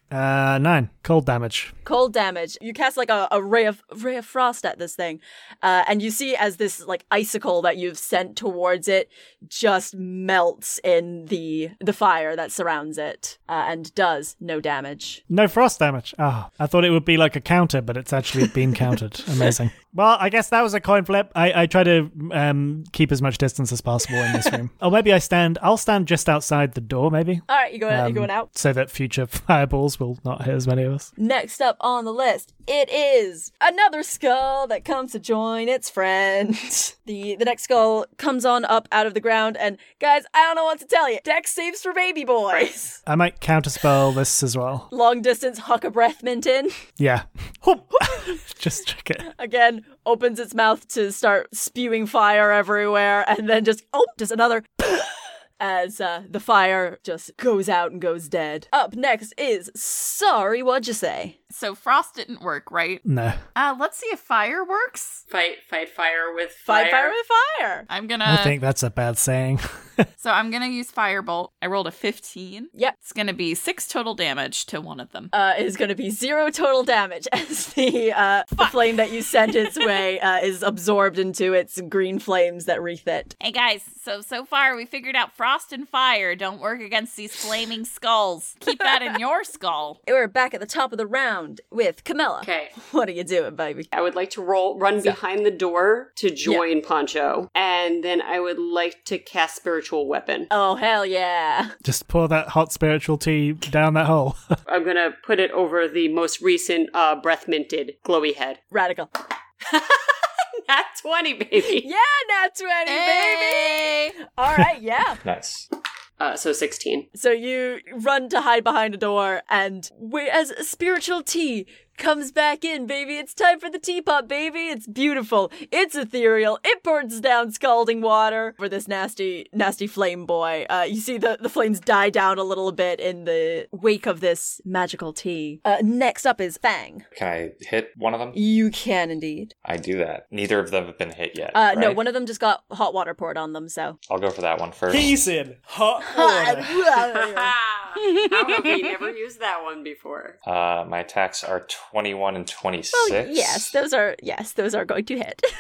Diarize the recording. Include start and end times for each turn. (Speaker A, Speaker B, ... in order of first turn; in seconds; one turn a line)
Speaker A: 0.1-1.7
Speaker B: 1.9-15.2
Speaker A: 15.3-31.1
Speaker B: 27.5-28.5
Speaker B: 31.2-43.0
Speaker A: 43.1-44.9
Speaker B: 44.9-46.8
Speaker A: 47.0-49.3
Speaker B: 48.1-48.3
Speaker B: 49.2-61.4
Speaker C: 61.5-63.0
Speaker A: 63.0-63.4
Speaker C: 63.5-65.2
Speaker D: 65.3-67.2
Speaker B: 66.7-67.9
Speaker C: 67.9-68.6
Speaker A: 68.2-70.1
Speaker C: 70.2-75.3
Speaker B: 75.3-83.3
Speaker C: 79.5-80.0
Speaker C: 83.4-90.0
Speaker B: 90.1-93.9
Speaker D: 92.4-92.7
Speaker D: 93.9-100.5
Speaker B: 100.5-101.7
Speaker A: 101.8-104.6
Speaker D: 104.7-108.6
Speaker B: 108.7-109.1
Speaker D: 109.7-111.9
Speaker B: 111.7-115.2
Speaker C: 112.9-114.2
Speaker E: 115.2-115.7
Speaker D: 116.2-117.1
Speaker B: 117.1-137.1
Speaker E: 137.2-138.4
Speaker B: 138.3-139.5
Speaker E: 139.7-142.0
Speaker B: 141.5-144.0
Speaker E: 144.1-145.2
Speaker A: 144.9-146.8
Speaker B: 146.0-147.5
Speaker D: 146.9-150.4
Speaker C: 148.1-148.7
Speaker E: 150.4-153.8
Speaker B: 152.9-155.4